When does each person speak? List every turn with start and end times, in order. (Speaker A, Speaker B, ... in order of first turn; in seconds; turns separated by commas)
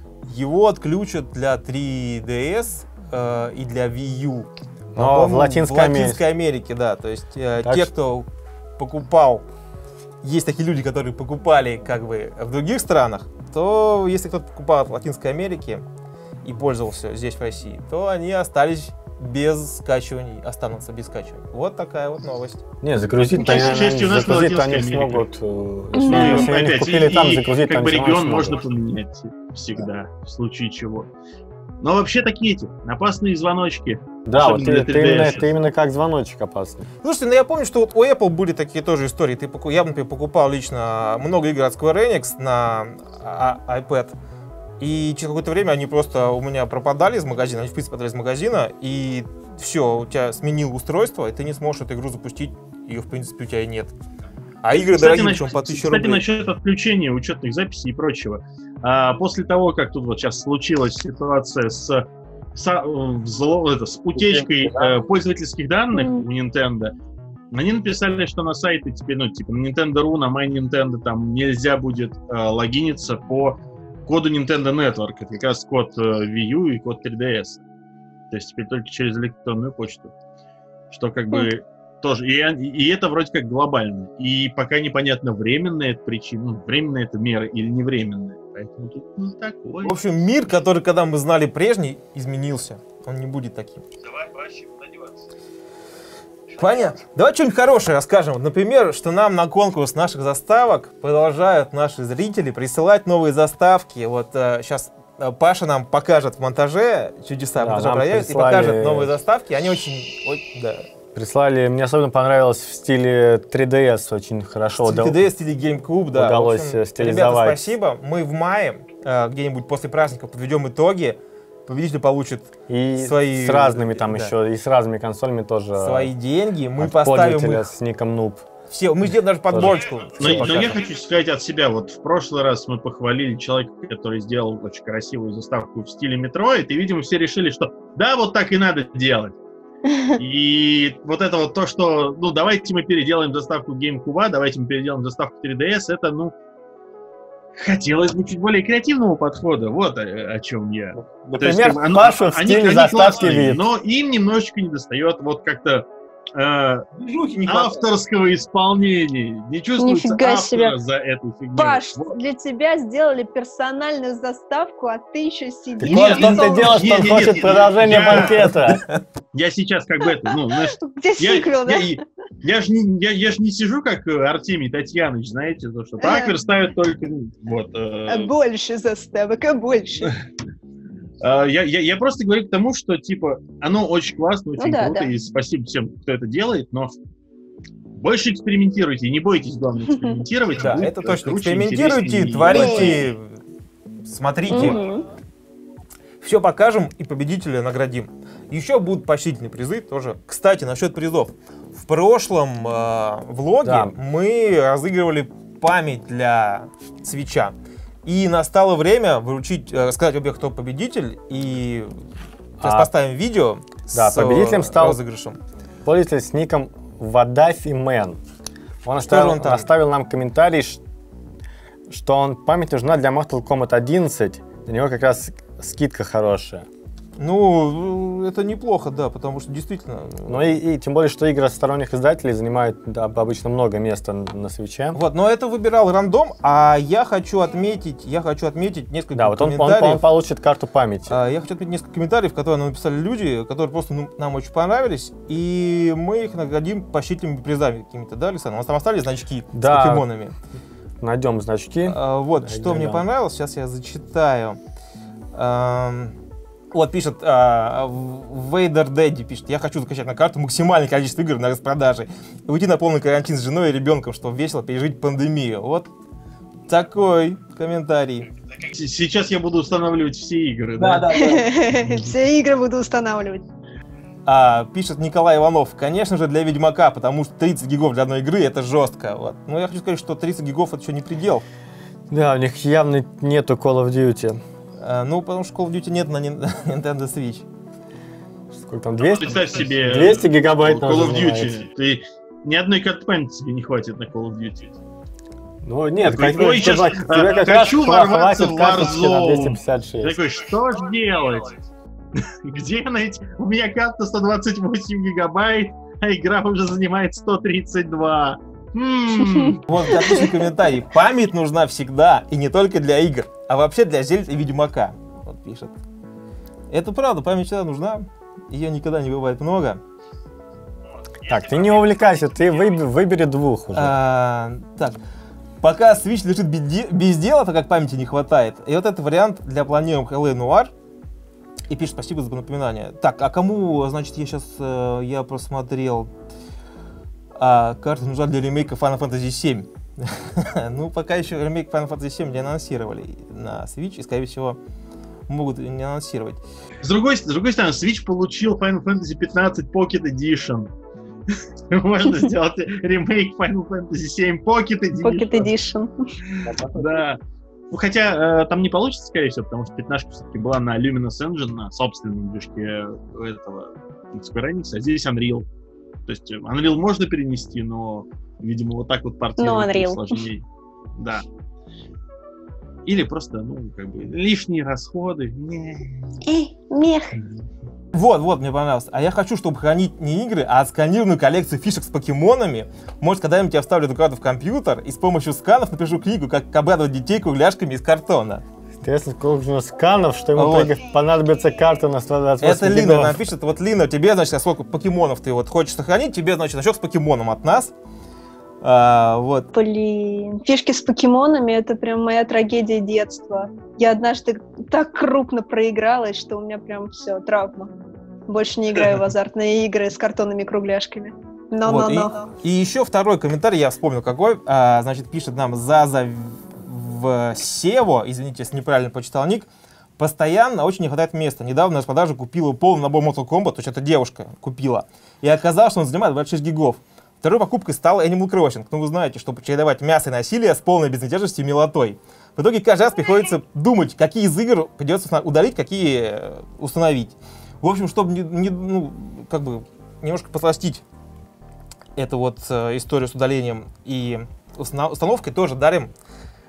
Speaker A: 0.2-8.3, Speaker B: 4.9-6.2, Speaker B: 7.6-7.9, Speaker A: 8.8-9.4, Speaker A: 10.2-15.8, Speaker A: 16.4-22.6, Speaker B: 22.8-28.6, Speaker C: 23.4-25.2, Speaker D: 25.9-26.5, Speaker C: 26.0-31.1, Speaker C: 31.8-35.5, Speaker B: 34.2-36.9, Speaker A: 37.0-44.1, Speaker A: 44.8-53.9, Speaker A: 54.6-56.2, Speaker C: 54.8-66.9, Speaker D: 65.9-66.3, Speaker C: 67.5-77.6, Speaker C: 78.3-80.1, Speaker C: 80.9-90.0, Speaker A: 89.8-93.8, Speaker A: 96.5-110.8, Speaker B: 107.6-109.2, Speaker B: 111.1-115.2, Speaker A: 114.8-124.3, Speaker B: 116.1-117.6, Speaker B: 122.7-126.1, Speaker A: 125.8-127.7, Speaker B: 126.8-128.4, Speaker A: 128.7-130.8, Speaker B: 129.5-130.7, Speaker C: 130.2-139.3, Speaker C: 140.2-146.3, Speaker C: 147.6-156.8, Speaker B: 151.3-153.6, Speaker A: 156.9-157.8, Speaker C: 157.4-162.2, Speaker D: 159.8-160.7, Speaker D: 161.6-166.9, Speaker B: 165.8-168.8, Speaker C: 165.8-168.5, Speaker C: 169.3-178.3, Speaker D: 170.1-172.0, Speaker D: 176.0-176.3, Speaker D: 178.1-180.1, Speaker C: 181.2-186.9, Speaker D: 184.6-185.1, Speaker C: 187.9-193.0, Speaker A: 190.6-193.4, Speaker D: 192.5-193.0, Speaker A: 194.1-194.8, Speaker D: 194.5-195.0, Speaker A: 196.2-207.5, Speaker B: 203.6-203.9, Speaker A: 208.0-211.9, Speaker B: 212.6-212.9, Speaker A: 212.6-215.4, Speaker B: 213.9-215.0, Speaker B: 215.8-218.2, Speaker B: 218.8-220.8, Speaker A: 219.0-219.7, Speaker B: 221.9-226.7, Speaker A: 227.2-230.5, Speaker B: 230.3-235.0, Speaker A: 234.9-240.0, Speaker B: 239.1-241.1, Speaker A: 241.1-250.3, Speaker B: 249.5-250.1, Speaker B: 251.0-253.0, Speaker A: 251.8-254.6, Speaker A: 255.3-256.1, Speaker A: 256.7-265.9, Speaker A: 266.7-268.3, Speaker C: 268.7-271.1, Speaker A: 270.8-271.5, Speaker D: 271.1-273.4, Speaker A: 274.2-281.4, Speaker B: 282.1-284.4, Speaker A: 284.8-287.4, Speaker B: 288.5-291.6, Speaker C: 289.1-294.7, Speaker B: 295.6-300.2, Speaker C: 296.1-301.6, Speaker C: 302.1-309.6, Speaker A: 309.6-315.7, Speaker A: 316.7-319.8, Speaker B: 321.2-323.9, Speaker A: 323.7-325.0, Speaker A: 325.6-330.7, Speaker A: 331.7-336.1, Speaker A: 337.4-344.6, Speaker A: 345.3-346.4, Speaker C: 346.8-350.7, Speaker C: 351.7-355.5, Speaker D: 355.0-355.9, Speaker C: 356.3-365.4, Speaker C: 366.1-370.4, Speaker D: 369.4-370.2, Speaker C: 370.9-371.2, Speaker C: 372.9-376.2, Speaker D: 376.2-377.2, Speaker C: 377.1-377.5, Speaker A: 377.9-388.4, Speaker B: 388.8-393.2, Speaker A: 390.4-390.8, Speaker A: 392.4-397.7, Speaker A: 398.6-399.5, Speaker D: 399.5-407.7, Speaker D: 408.3-412.3, Speaker A: 411.6-440.8, Speaker A: 441.9-445.9